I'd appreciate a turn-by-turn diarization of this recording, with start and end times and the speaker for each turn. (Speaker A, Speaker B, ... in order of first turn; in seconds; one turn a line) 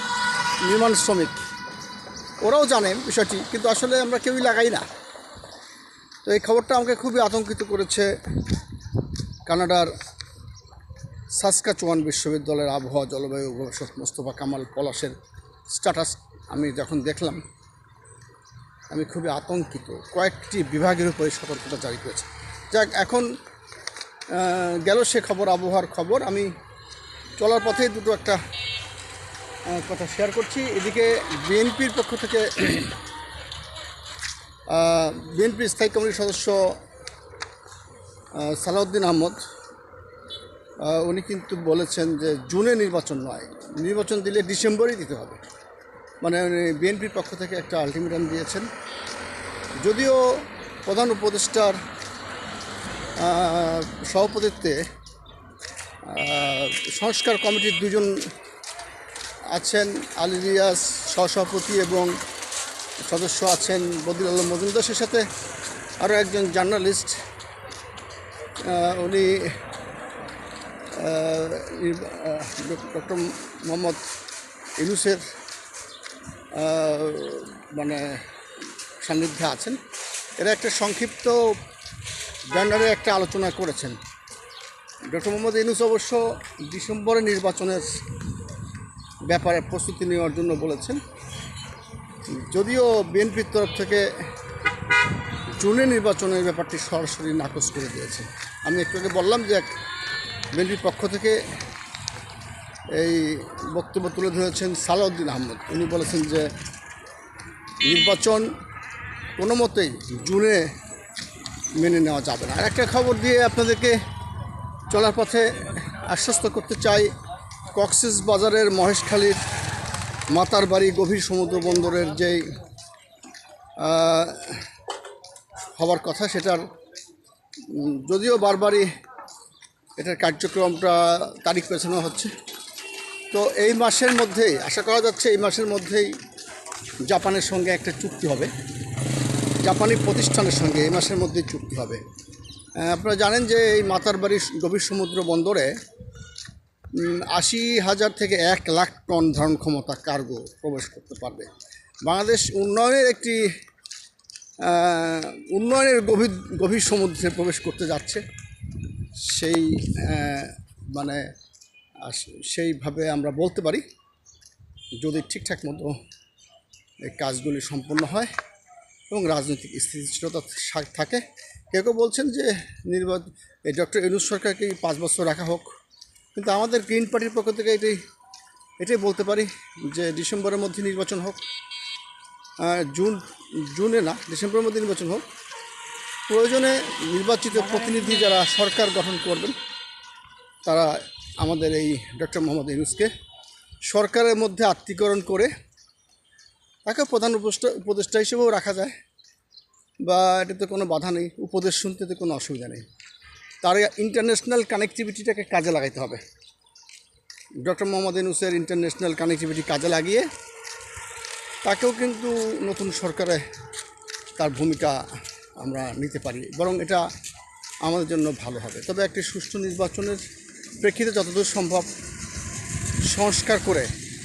Speaker A: 0.6-1.3
Speaker A: 2.4-4.9
Speaker A: 6.2-8.1
Speaker A: 9.5-9.9
Speaker A: 11.4-15.1
Speaker A: 15.7-17.4
Speaker A: 18.9-23.3
Speaker A: 24.3-26.5
Speaker A: 27.4-28.4
Speaker A: 29.7-32.9
Speaker A: 34.7-36.8
Speaker A: 38.4-39.4
Speaker A: 40.8-45.4
Speaker A: 46.2-48.7
Speaker A: 49.8-50.2
Speaker A: 50.9-51.8
Speaker A: 53.2-54.8
Speaker A: 56.0-58.1
Speaker A: 59.5-62.1
Speaker A: 63.0-65.2
Speaker A: 66.0-67.2
Speaker A: 68.6-69.5
Speaker A: 70.9-74.0
Speaker A: 74.8-75.2
Speaker A: 76.5-78.2
Speaker A: 79.0-79.8
Speaker A: 80.4-81.5
Speaker A: 82.5-84.0
Speaker A: 85.1-87.9
Speaker A: 89.3-91.0
Speaker A: 92.3-94.1
Speaker A: 95.6-99.7
Speaker A: 100.5-101.4
Speaker A: 102.9-106.5
Speaker A: 107.8-108.5
Speaker A: 109.4-110.7
Speaker A: 111.8-114.0
Speaker A: 114.9-117.1
Speaker A: 117.7-119.4
Speaker A: 120.3-122.4
Speaker A: 123.8-124.6
Speaker A: 125.8-126.6
Speaker A: 127.7-128.9
Speaker A: 130.0-132.3
Speaker A: 133.3-136.1
Speaker A: 137.1-138.5
Speaker A: 139.6-142.0
Speaker A: 142.8-145.7
Speaker A: 146.9-151.5
Speaker A: 152.0-153.4
Speaker A: 154.6-158.2
Speaker A: 159.2-161.2
Speaker A: 162.0-163.8
Speaker A: 165.0-165.9
Speaker A: 167.0-168.3
Speaker A: 169.1-175.7
Speaker A: 176.3-178.0
Speaker A: 178.8-181.4
Speaker A: 182.6-185.2
Speaker A: 186.3-189.6
Speaker A: 190.7-193.1
Speaker A: 193.9-195.5
Speaker A: 196.8-198.9
Speaker A: 200.0-202.8
Speaker A: 203.6-206.2
Speaker A: 207.6-210.2
Speaker A: 211.6-213.4
Speaker A: 214.4-215.0
Speaker A: 215.6-217.0
Speaker A: 217.8-220.2
Speaker A: 220.8-221.9
Speaker A: 223.1-223.9